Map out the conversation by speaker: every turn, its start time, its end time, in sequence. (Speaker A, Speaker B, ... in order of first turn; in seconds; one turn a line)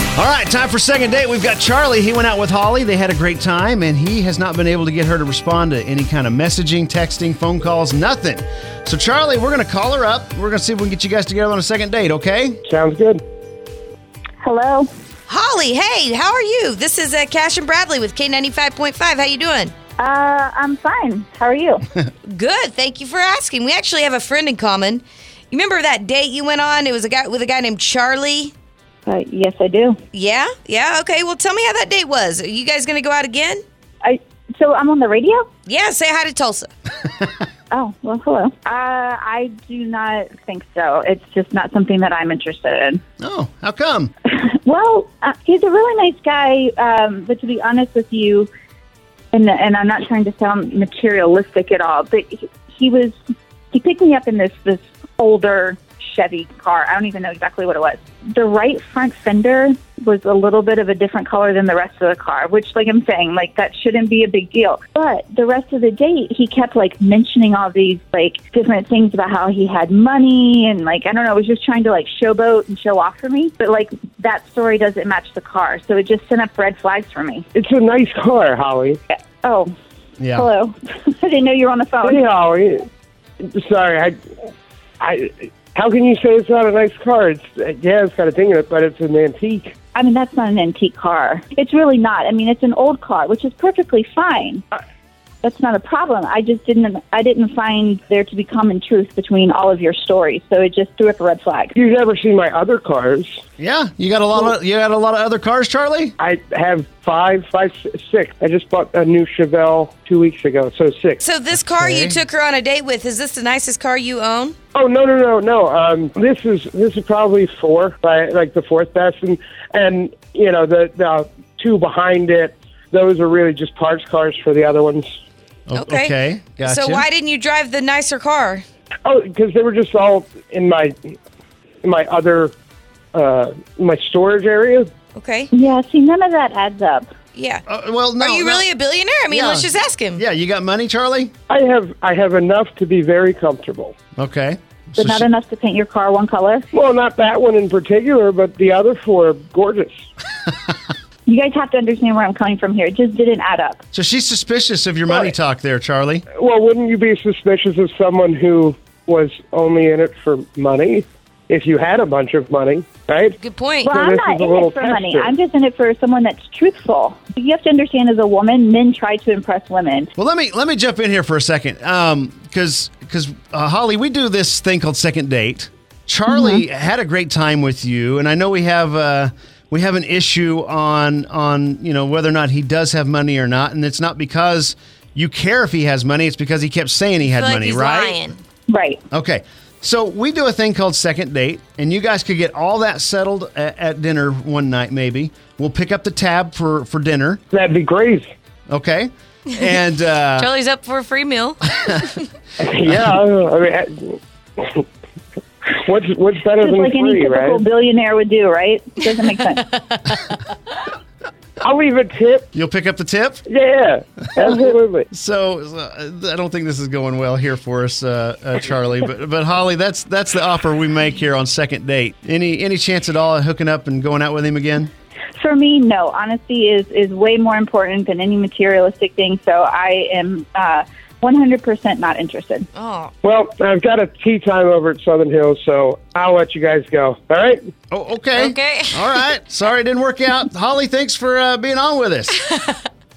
Speaker A: 0.1-12.6
Speaker B: 12.7-13.2
Speaker C: 14.4-14.9
Speaker D: 15.3-19.7
Speaker C: 20.0-21.9
Speaker D: 22.3-28.5
Speaker C: 29.1-30.0
Speaker D: 30.1-33.6
Speaker C: 34.0-35.5
Speaker D: 35.7-36.7
Speaker C: 37.7-43.0
Speaker A: 43.2-44.1
Speaker C: 44.3-48.5
Speaker C: 49.3-53.2
Speaker C: 53.7-77.5
Speaker B: 77.5-79.0
Speaker C: 79.1-79.7
Speaker A: 80.2-80.5
Speaker C: 80.3-82.2
Speaker B: 82.0-82.9
Speaker B: 83.4-84.2
Speaker B: 85.0-89.7
Speaker C: 89.9-94.6
Speaker C: 95.4-101.7
Speaker B: 101.8-103.4
Speaker A: 103.6-106.2
Speaker B: 106.2-111.2
Speaker D: 111.2-114.5
Speaker A: 111.6-112.2
Speaker B: 114.7-125.1
Speaker A: 125.7-127.0
Speaker D: 125.8-128.7
Speaker B: 129.1-131.2
Speaker B: 131.8-132.5
Speaker B: 133.1-134.9
Speaker D: 135.2-135.5
Speaker C: 135.5-137.1
Speaker D: 137.3-137.6
Speaker A: 137.7-138.7
Speaker D: 138.2-140.2
Speaker A: 139.3-141.3
Speaker B: 141.5-143.9
Speaker A: 144.2-145.2
Speaker C: 145.0-146.7
Speaker B: 146.7-150.0
Speaker C: 151.3-153.8
Speaker A: 153.9-156.2
Speaker B: 156.3-165.3
Speaker D: 163.4-163.9
Speaker C: 163.8-170.1
Speaker A: 170.2-188.2
Speaker C: 176.3-176.6
Speaker D: 187.2-188.4
Speaker C: 188.7-189.0
Speaker A: 189.1-197.4
Speaker B: 197.5-198.3
Speaker A: 198.7-200.5
Speaker D: 200.4-202.2
Speaker B: 202.6-204.8
Speaker B: 205.6-207.6
Speaker C: 206.6-209.6
Speaker D: 209.8-210.4
Speaker B: 211.6-212.5
Speaker A: 212.5-213.4
Speaker B: 213.5-215.1
Speaker A: 215.1-224.9
Speaker C: 225.4-232.7
Speaker D: 232.8-233.1
Speaker B: 233.2-237.6
Speaker A: 237.9-242.4
Speaker D: 238.3-239.2